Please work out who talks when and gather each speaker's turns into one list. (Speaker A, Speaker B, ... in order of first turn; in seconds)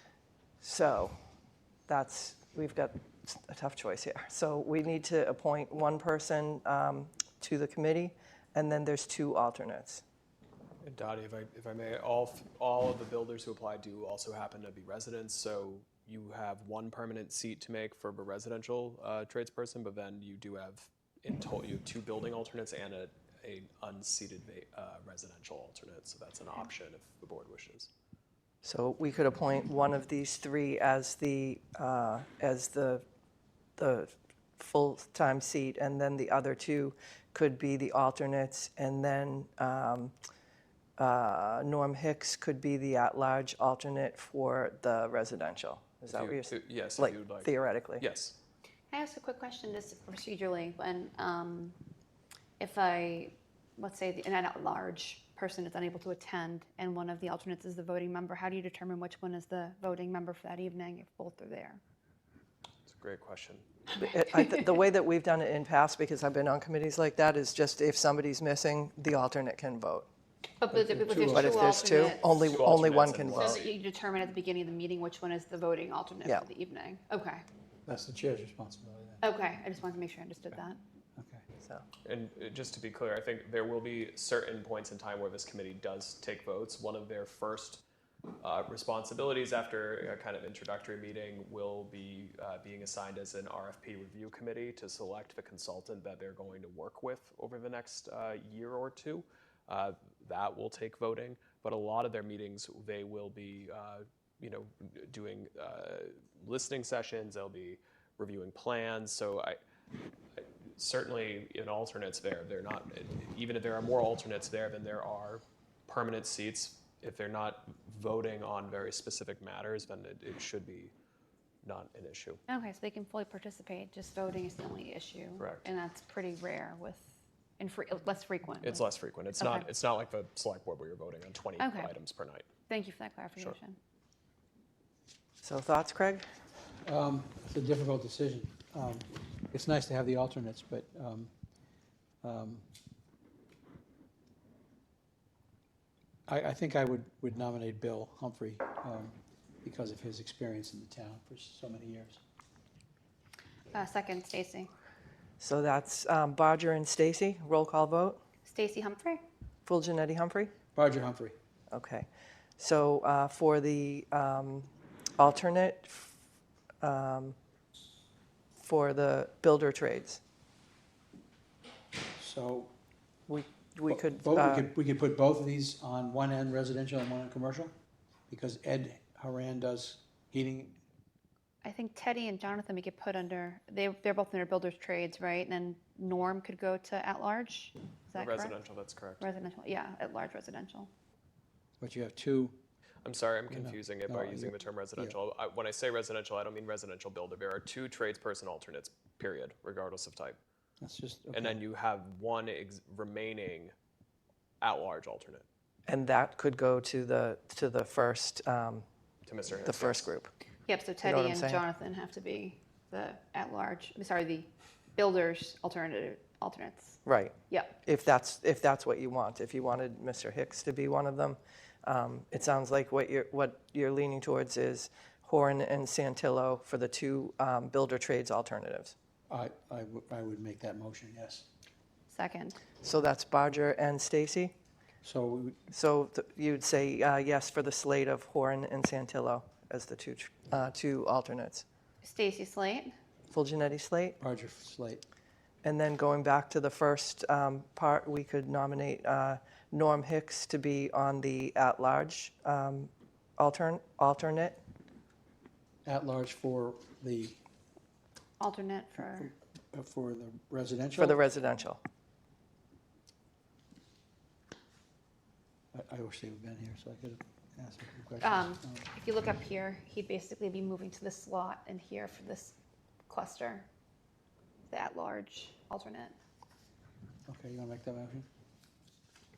Speaker A: 0.6-1.2, 1.9-10.0, 28.6-33.0, 33.8-40.1, 41.0-48.1, 64.0-70.1, 71.2-73.6, 135.4-136.3, 155.4-158.2, 159.7-160.5, 161.7-162.1, 162.6-166.1, 166.8-167.4, 168.6-170.2, 173.3-174.7, 205.9-208.9, 209.6-210.3, 211.0-211.6, 217.1-228.9, 232.8-234.5, 235.7-241.7, 243.3-244.2, 245.6-254.6, 260.9-261.8
Speaker B: 10.8-27.9, 46.1-48.4, 62.9-63.6, 71.7-73.7, 82.0-87.8, 88.4-109.6, 110.3-120.9, 121.6-122.4, 128.6-132.5, 188.2-189.3, 193.0-200.4, 201.3-203.7, 204.6-205.4, 209.3-210.1
Speaker C: 48.9-51.8, 52.6-61.8, 70.6-72.3, 73.3-77.5, 79.2-80.8, 122.5-128.9, 129.4-129.7, 131.6-131.9, 132.7-133.8, 153.7-154.7, 158.5-159.2, 181.6-188.6, 189.2-190.9, 210.7-217.8, 232.1-232.6, 242.0-242.9, 258.4-259.3, 268.2-272.6, 273.1-273.7, 274.7-276.1
Speaker D: 70.7-71.6, 77.9-79.2, 81.2-81.4, 136.8-141.3, 142.2-142.7, 146.3-152.2, 160.7-161.4, 172.2-172.7, 173.9-177.7, 178.3-180.8, 191.8-192.6, 193.5-195.2, 200.8-201.6, 229.3-231.5, 235.0-235.6, 244.2-245.0, 255.8-257.4, 259.2-261.2, 265.7-268.9, 277.3-278.3